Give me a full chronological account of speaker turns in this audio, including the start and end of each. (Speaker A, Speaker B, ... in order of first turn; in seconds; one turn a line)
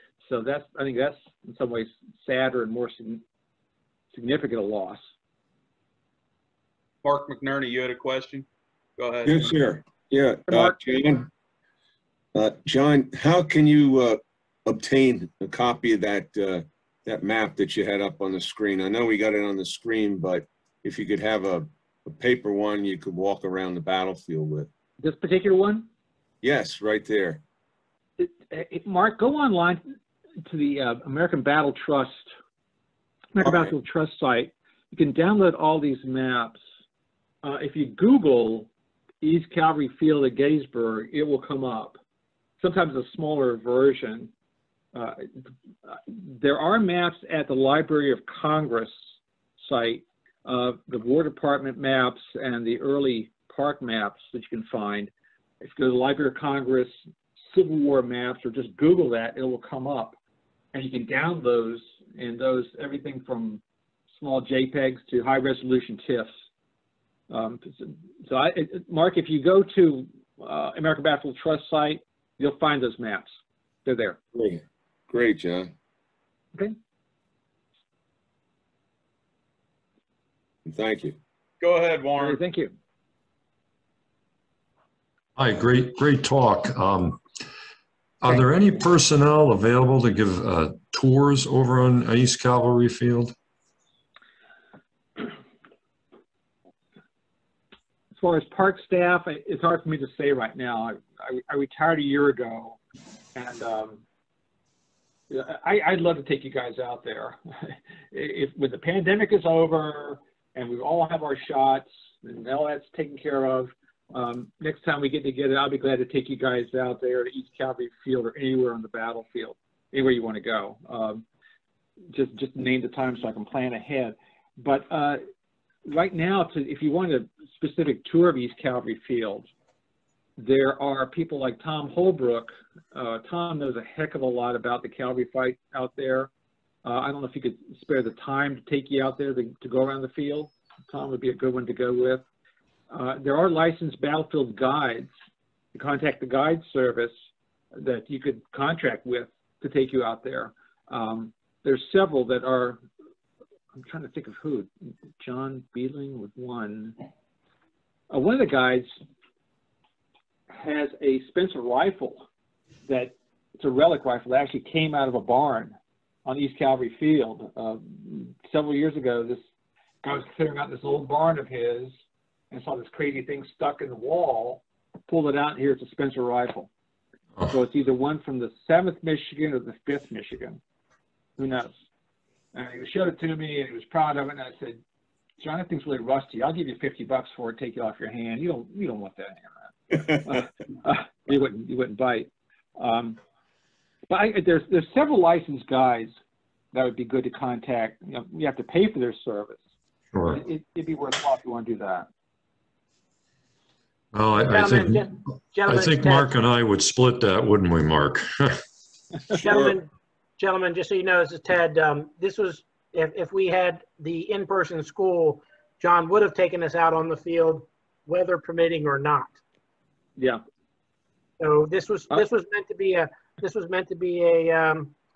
Speaker A: 0.2-3.2
Speaker A: 4.1-5.0
Speaker B: 7.0-8.4
Speaker B: 9.0-9.5
Speaker C: 9.2-11.3
Speaker A: 10.5-10.8
Speaker C: 12.3-24.7
Speaker A: 25.0-25.9
Speaker C: 26.4-27.4
Speaker A: 28.2-29.8
Speaker A: 30.4-32.3
Speaker A: 33.3-36.6
Speaker A: 37.4-38.7
Speaker A: 39.2-42.0
Speaker A: 42.6-44.3
Speaker A: 44.9-45.3
Speaker A: 45.9-57.0
Speaker A: 57.5-60.1
Speaker A: 60.7-63.6
Speaker A: 64.2-66.3
Speaker A: 67.3-74.2
Speaker C: 74.3-75.7
Speaker C: 80.7-81.2
Speaker B: 81.6-82.4
Speaker A: 82.2-82.7
Speaker D: 85.3-87.2
Speaker D: 88.2-93.3
Speaker A: 98.2-102.8
Speaker A: 103.3-104.0
Speaker A: 105.3-121.2
Speaker A: 122.1-125.2
Speaker A: 125.9-129.5
Speaker A: 130.4-136.3
Speaker A: 136.8-142.2
Speaker A: 142.9-145.1
Speaker A: 145.7-147.1
Speaker A: 147.7-152.8
Speaker A: 153.8-156.9
Speaker A: 158.1-158.9
Speaker A: 160.5-162.2
Speaker A: 162.8-165.7
Speaker A: 166.2-169.4
Speaker A: 170.0-171.9
Speaker A: 172.5-176.7
Speaker A: 177.5-180.6
Speaker A: 181.4-181.7
Speaker A: 182.5-184.8
Speaker A: 185.4-193.2
Speaker A: 194.1-196.1
Speaker A: 196.7-199.6
Speaker D: 200.1-200.4
Speaker A: 200.3-202.1
Speaker D: 204.1-208.6
Speaker E: 204.5-206.3
Speaker E: 209.3-219.4
Speaker E: 221.4-224.9